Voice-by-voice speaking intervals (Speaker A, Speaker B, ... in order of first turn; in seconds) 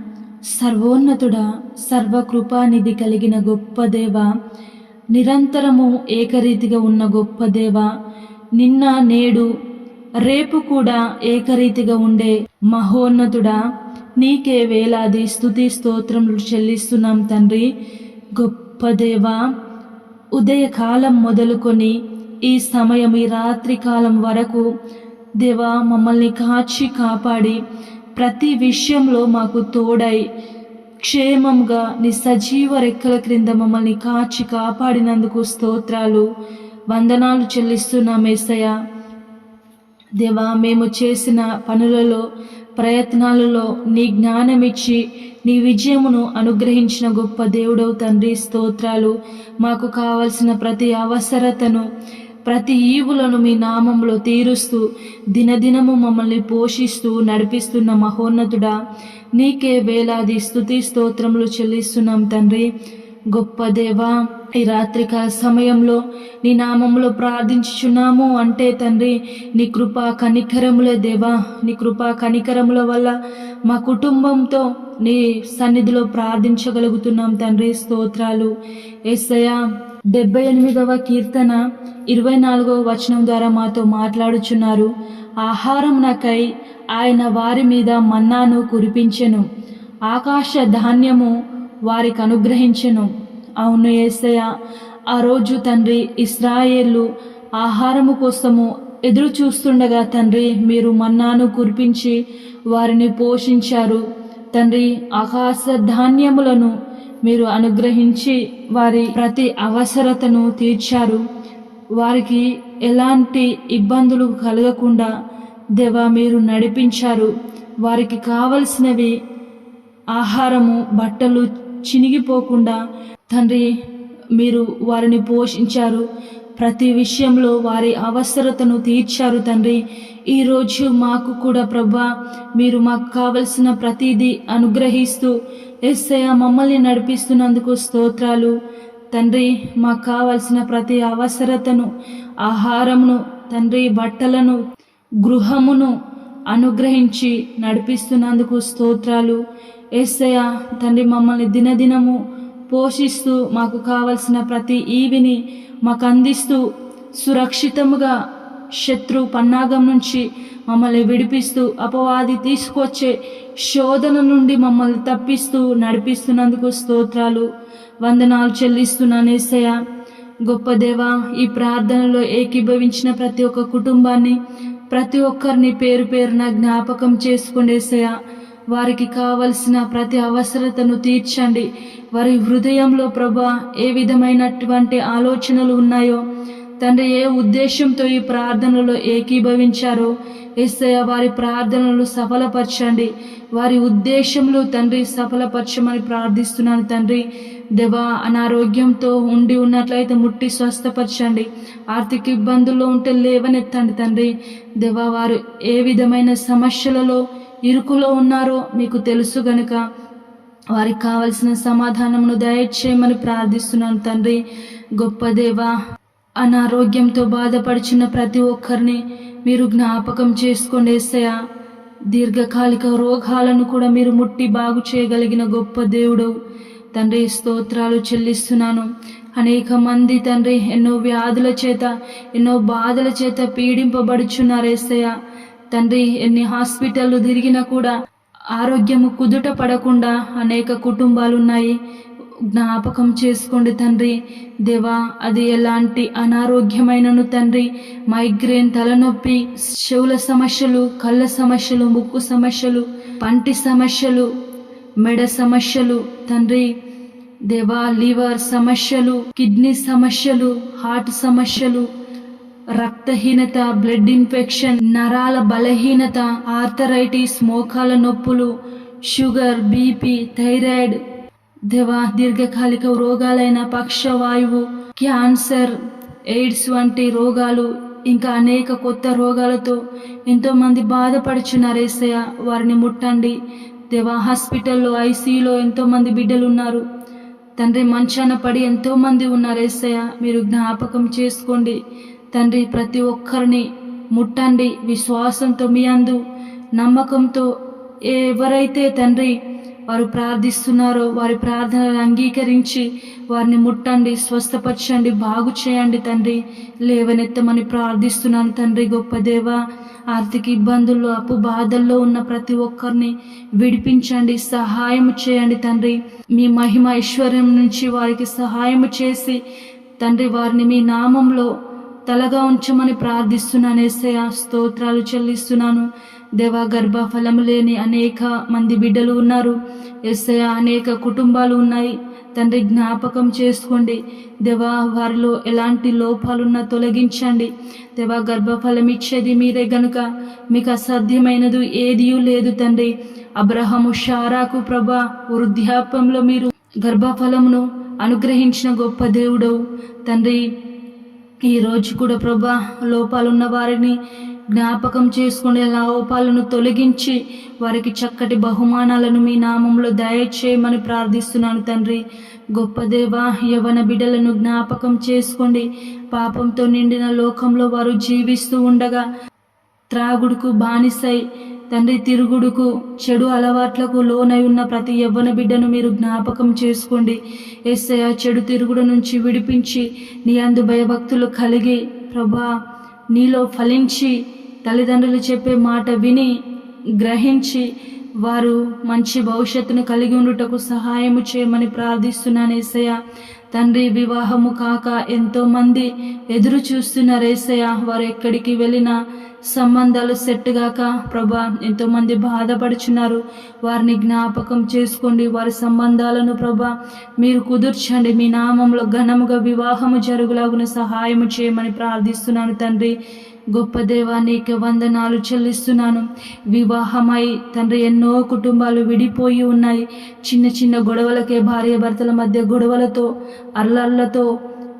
Speaker A: 0.5-4.3, 5.1-7.9, 8.5-9.5, 10.2-13.6, 14.2-17.7, 18.4-19.4, 20.3-24.7, 25.4-27.6, 28.2-30.3, 31.0-36.3, 36.9-38.8, 40.2-42.2, 42.8-51.9, 52.5-58.8, 59.3-62.7, 63.3-78.5, 79.1-89.4, 90.1-91.3, 91.9-94.5, 95.1-106.7, 107.2-111.2, 112.0-115.1, 115.8-117.3, 117.8-119.1, 120.1-123.7, 124.4-126.0, 126.6-135.3, 135.8-138.5, 139.1-141.9, 142.4-144.6, 145.2-145.9, 146.5-149.4, 149.9-152.2, 152.7-156.6, 157.2-158.1, 158.7-167.5, 168.0-169.8, 170.4-174.4, 174.9-178.2, 178.7-186.2, 186.8-197.2, 197.8-209.8, 210.7-214.4, 215.0-215.7, 216.4-221.4, 222.1-226.3, 226.9-235.1, 235.7-237.9, 238.5-241.8, 242.5-254.3, 255.0-256.7, 257.5-261.9, 262.8-268.5, 269.1-271.0, 271.7-275.7, 276.3-283.4, 283.9-286.8, 287.6-291.8, 292.3-296.2, 296.8-297.5, 298.1-299.3, 299.9-319.4, 320.0-321.5, 322.1-350.4, 351.4-354.0, 354.5-362.0, 362.6-369.0, 369.9-382.5, 383.1-386.3, 387.0-387.7, 388.2-393.0, 393.5-398.9, 399.5-412.9, 413.5-424.3